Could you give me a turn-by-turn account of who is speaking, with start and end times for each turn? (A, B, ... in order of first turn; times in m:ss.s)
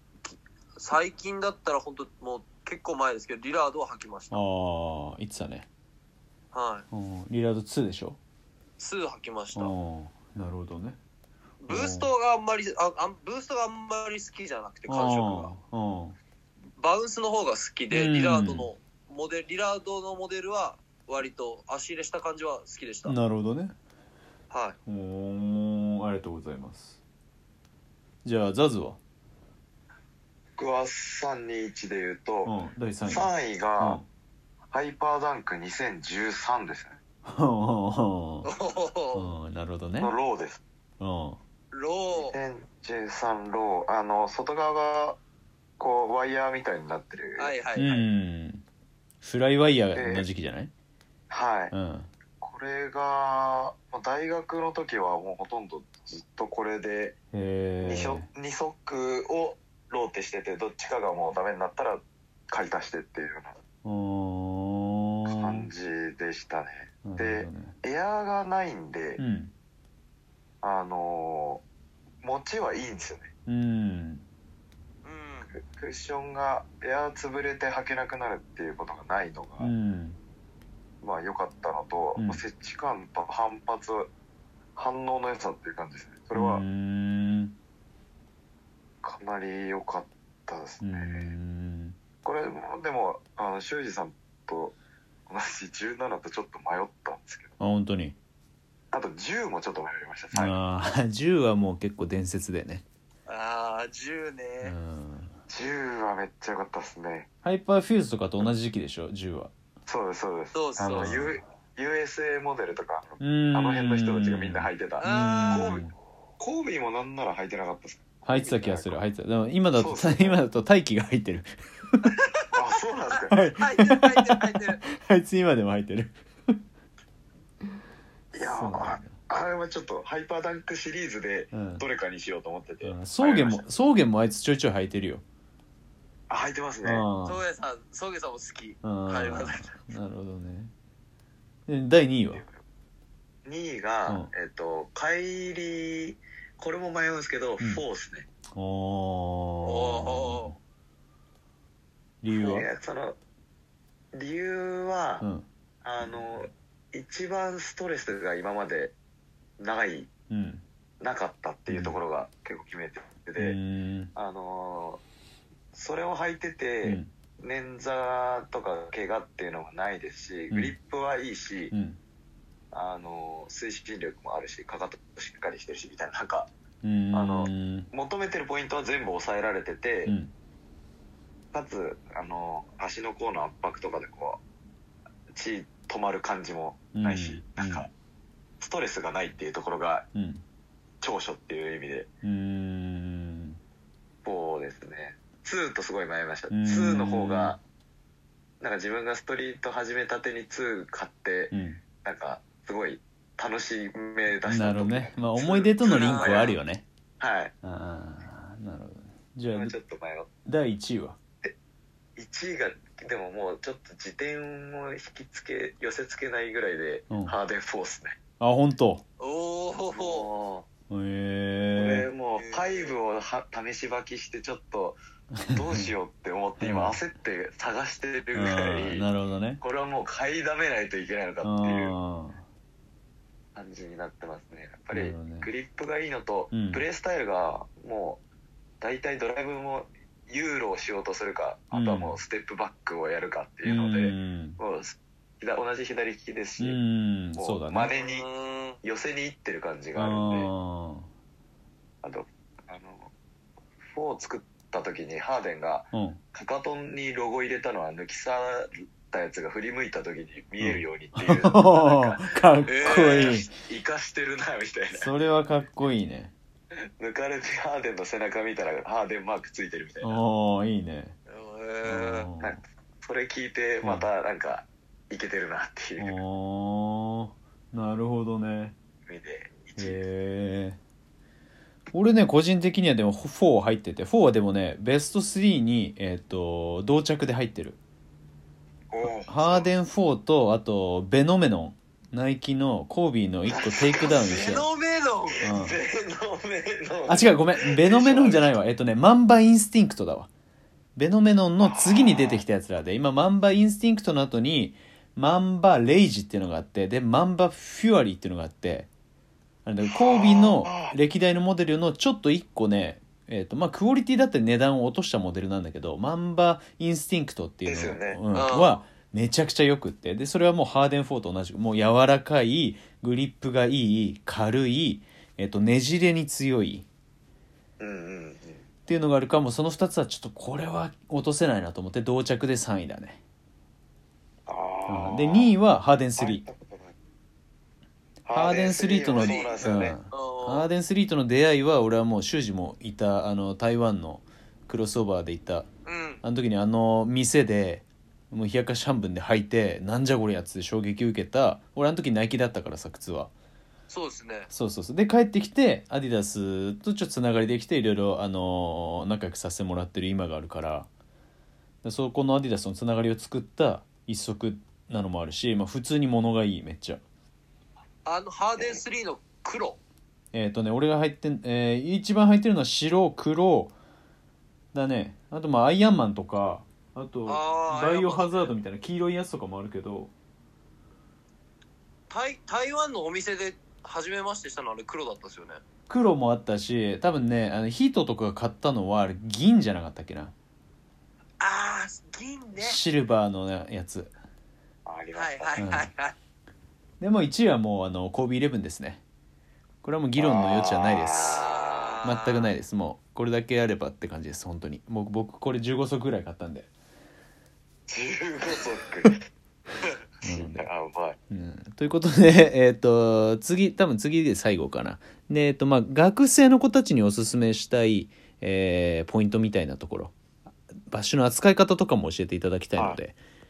0:00.2-0:04.4 A
0:04.3-0:05.7 B
0:06.5-0:06.8 A
0:06.9-0:08.2 B
0:08.8-0:09.7 A
0:09.5-0:11.0 B
0:11.6-0:15.5 A
0:11.7-0:12.1 B
0:14.9-0:16.2 B
0:16.8-0:23.2 A
0:17.9-0:18.7 B
0:23.0-0:23.7 B
0:24.5-0:24.8 A
0:24.9-0:27.0 B
0:28.2-0:29.0 B
0:30.6-0:34.0 C
0:32.4-0:34.0 B
0:34.7-0:37.0 C
0:37.2-0:38.5 B
0:38.4-0:39.3 A
0:39.1-0:40.1 B
0:40.0-0:40.6 C
0:41.0-0:41.4 B
0:41.7-0:42.4 A
0:42.1-0:45.2 C
0:45.8-0:47.5 C
0:47.4-0:48.0 A
0:47.7-0:48.6 B
0:49.2-0:50.7 B
0:49.9-0:50.3 C
0:51.3-0:51.7 C
0:51.7-0:52.1 B
0:52.4-0:57.2 C
0:57.3-0:58.3 B
0:57.8-1:03.6 C
1:03.8-1:05.7 B
1:05.2-1:09.2 C
1:07.0-1:07.7 B
1:09.2-1:09.5 B
1:10.6-1:11.6 C
1:12.2-1:13.3 C
1:13.5-1:14.2 B
1:15.0-1:15.5 A
1:15.5-1:19.7 C
1:19.6-1:20.2 B
1:21.0-1:24.1 C
1:22.2-1:22.4 B
1:24.8-1:26.6 C
1:26.3-1:27.5 B
1:29.0-1:31.4 C
1:30.8-1:32.0 B
1:32.2-1:34.8 C
1:35.3-1:37.5 C
1:37.6-1:38.2 B
1:38.9-1:40.6 C
1:40.3-1:42.8 B
1:43.3-1:44.7 A
1:44.6-1:45.4 B
1:45.5-1:47.3 C
1:47.4-1:49.5 B
1:49.9-1:55.8 C
1:50.5-1:51.1 A
1:50.8-1:51.4 B
1:53.2-1:55.9 B
1:55.0-1:55.8 A
1:56.4-1:59.0 C
1:58.2-2:02.1 B
1:59.7-2:00.4 C
2:02.0-2:02.5 A
2:02.5-2:03.3 C
2:03.3-2:06.1 B
2:03.6-2:04.8 A
2:08.3-2:13.6 C
2:08.4-2:09.2 B
2:11.5-2:11.8 B
2:12.8-2:15.2 B
2:16.3-2:17.0 C
2:16.8-2:17.4 B
2:17.2-2:19.8 A
2:18.8-2:20.7 B
2:21.7-2:22.4 B
2:22.3-2:22.6 C
2:23.4-2:28.3 C
2:28.6-2:30.6 B
2:29.6-2:30.5 A
2:32.2-2:32.7 B
2:32.3-2:33.2 C
2:34.1-2:35.2 C
2:35.2-2:35.4 B
2:35.8-2:38.9 C
2:39.6-2:40.1 C
2:40.3-2:40.6 B
2:41.0-2:43.6 C
2:41.7-2:41.9 B
2:43.4-2:44.1 B
2:44.1-2:45.0 C
2:45.7-2:51.7 C
2:46.8-2:47.1 B
2:50.5-2:50.8 B
2:51.7-2:52.0 B
2:52.7-2:56.5 C
2:56.8-2:57.9 B
2:57.1-3:00.1 C
3:00.0-3:00.3 B
3:01.5-3:04.4 C
3:05.3-3:07.9 C
3:06.9-3:07.9 B
3:08.6-3:10.1 C
3:10.1-3:10.4 B
3:11.0-3:12.1 C
3:12.2-3:13.6 B
3:14.2-3:17.6 C
3:16.5-3:17.6 B
3:18.6-3:26.5 C
3:21.5-3:21.8 B
3:24.4-3:26.8 B
3:25.8-3:26.6 A
3:27.2-3:27.5 C
3:27.6-3:29.7 B
3:29.5-3:30.3 C
3:30.4-3:31.2 B
3:32.2-3:38.2 C
3:37.1-3:37.3 B
3:38.4-3:39.0 B
3:39.2-3:40.3 A
3:39.9-3:40.7 C
3:40.9-3:42.1 B
3:41.8-3:45.0 C
3:42.4-3:43.0 A
3:45.4-3:45.9 B
3:45.5-3:49.1 C
3:46.6-3:47.0 B
3:48.3-3:49.6 B
3:49.6-3:51.9 C
3:51.4-3:52.4 B
3:53.6-3:58.2 C
3:54.9-3:55.5 B
3:56.5-3:56.8 B
3:58.8-4:06.8 C
4:01.7-4:02.2 B
4:03.6-4:04.6 B
4:06.6-4:07.9 B
4:07.4-4:08.2 C
4:07.9-4:08.8 A
4:08.8-4:10.5 C
4:10.0-4:11.1 B
4:12.0-4:13.1 C
4:13.9-4:25.1 C
4:15.9-4:16.2 B
4:20.6-4:23.5 B
4:22.7-4:23.5 A
4:24.9-4:26.3 B
4:27.0-4:30.2 C
4:30.0-4:31.1 B
4:31.3-4:32.3 A
4:31.8-4:32.6 B
4:32.4-4:36.2 C
4:33.8-4:34.1 B
4:36.0-4:38.7 B
4:39.1-4:40.0 C
4:39.8-4:40.8 B
4:41.9-4:47.8 B
4:48.9-4:49.7 C
4:49.0-4:54.7 B
4:53.5-4:54.7 C
4:54.1-4:55.5 A
4:55.3-4:58.6 C
4:55.4-4:55.8 B
4:57.1-5:00.3 B
5:01.0-5:08.9 B
5:01.6-5:02.4 C
5:09.6-5:26.9 B
5:09.8-5:11.0 C
5:17.6-5:18.2 C
5:18.3-5:18.8 A
5:27.8-5:28.6 C
5:28.9-5:33.2 B
5:34.4-5:35.5 C
5:34.9-5:36.4 B
5:36.2-5:36.9 C
5:38.2-5:40.0 C
5:38.3-5:45.7 B
5:39.1-5:40.7 A
5:45.8-5:46.2 A
5:46.2-5:53.3 B
5:53.9-5:54.5 A
5:54.5-6:00.9 B
6:01.8-6:07.0 B
6:08.0-6:09.8 A
6:08.6-6:08.8 C
6:10.3-6:13.7 B
6:14.7-6:20.1 B
6:17.2-6:18.5 A
6:22.1-6:25.6 A
6:25.9-6:30.3 B
6:31.4-6:32.8 A
6:32.6-6:34.1 B
6:34.8-6:35.7 C
6:35.1-6:36.1 A
6:35.6-6:35.9 B
6:37.0-6:39.0 B
6:39.8-6:41.5 B
6:40.2-6:42.0 C
6:41.4-6:42.5 A
6:42.0-6:46.7 B
6:47.9-6:49.2 C
6:50.2-6:50.7 B
6:50.2-6:51.2 C
6:51.3-7:00.1 B
7:00.9-7:03.2 B